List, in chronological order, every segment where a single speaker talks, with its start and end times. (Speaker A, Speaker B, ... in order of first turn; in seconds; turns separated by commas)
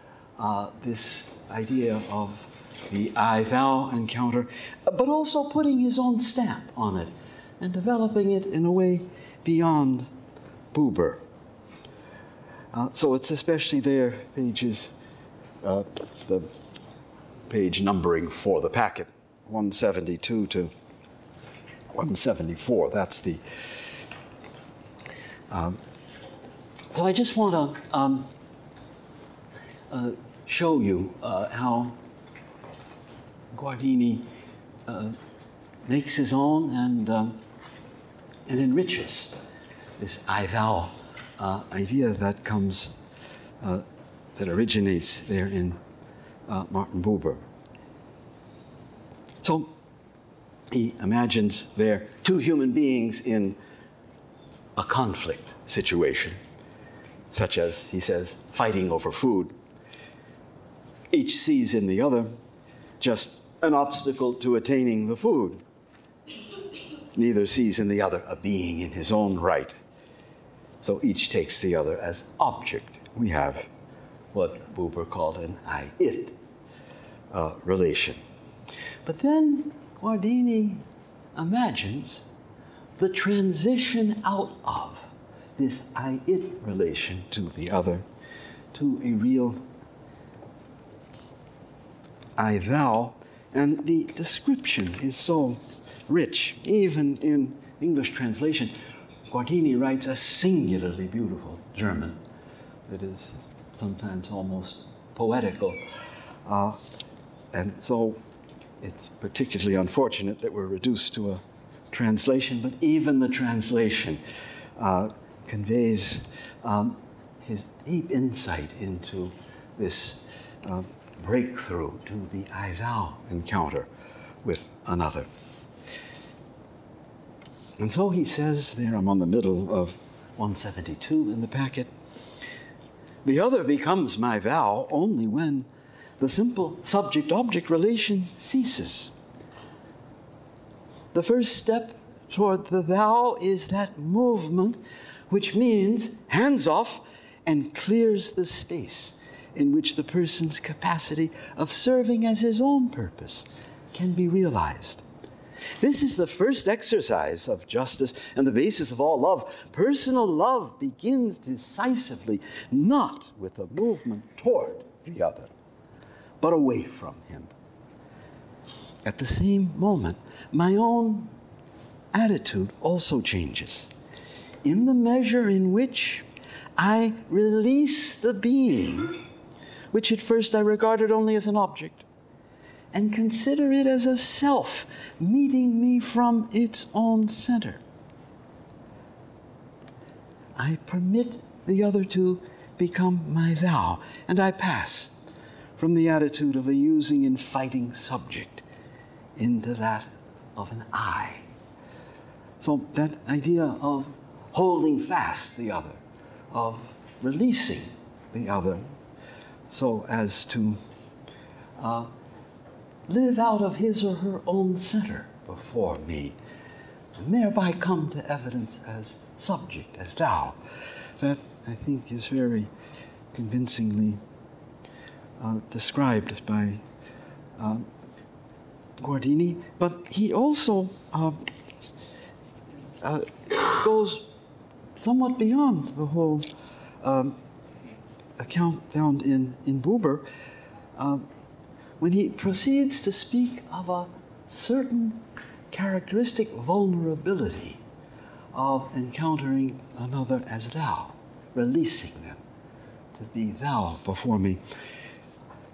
Speaker A: 0.4-10.1, Speaker A: 10.7-11.2, Speaker A: 12.7-14.9, Speaker A: 15.6-16.5, Speaker A: 17.5-20.7, Speaker A: 21.9-23.4, Speaker A: 25.5-25.8, Speaker A: 26.9-28.3, Speaker A: 29.9-32.0, Speaker A: 33.5-34.3, Speaker A: 34.9-35.2, Speaker A: 35.9-37.4, Speaker A: 38.5-39.4, Speaker A: 40.0-42.9, Speaker A: 44.4-45.8, Speaker A: 46.5-47.4, Speaker A: 49.4-49.7, Speaker A: 50.7-53.6, Speaker A: 54.8-56.4, Speaker A: 57.3-59.5, Speaker A: 61.1-62.3, Speaker A: 63.0-65.6, Speaker A: 67.1-69.8, Speaker A: 70.8-73.7, Speaker A: 74.3-76.3, Speaker A: 77.3-78.2, Speaker A: 79.0-80.8, Speaker A: 81.3-82.3, Speaker A: 83.0-88.0, Speaker A: 88.7-89.6, Speaker A: 92.4-98.7, Speaker A: 99.3-102.2, Speaker A: 102.9-105.8, Speaker A: 106.5-106.8, Speaker A: 107.5-108.2, Speaker A: 108.8-114.2, Speaker A: 114.8-123.9, Speaker A: 124.4-125.3, Speaker A: 127.8-131.9, Speaker A: 133.2-139.1, Speaker A: 141.1-155.0, Speaker A: 155.8-165.5, Speaker A: 166.4-167.5, Speaker A: 169.0-171.3, Speaker A: 172.1-173.9, Speaker A: 174.6-176.2, Speaker A: 176.8-179.2, Speaker A: 179.9-182.1, Speaker A: 182.9-187.8, Speaker A: 190.6-195.2, Speaker A: 195.8-198.6, Speaker A: 199.3-201.4, Speaker A: 202.6-208.9, Speaker A: 209.7-210.8, Speaker A: 211.8-212.1, Speaker A: 213.1-216.3, Speaker A: 217.2-220.6, Speaker A: 221.2-222.7, Speaker A: 223.3-224.2, Speaker A: 225.4-226.8, Speaker A: 227.6-227.9, Speaker A: 229.0-231.4, Speaker A: 233.0-234.3, Speaker A: 235.0-236.5, Speaker A: 237.0-237.4, Speaker A: 238.4-240.2, Speaker A: 240.9-241.2, Speaker A: 242.0-247.8, Speaker A: 248.5-252.4, Speaker A: 253.1-254.6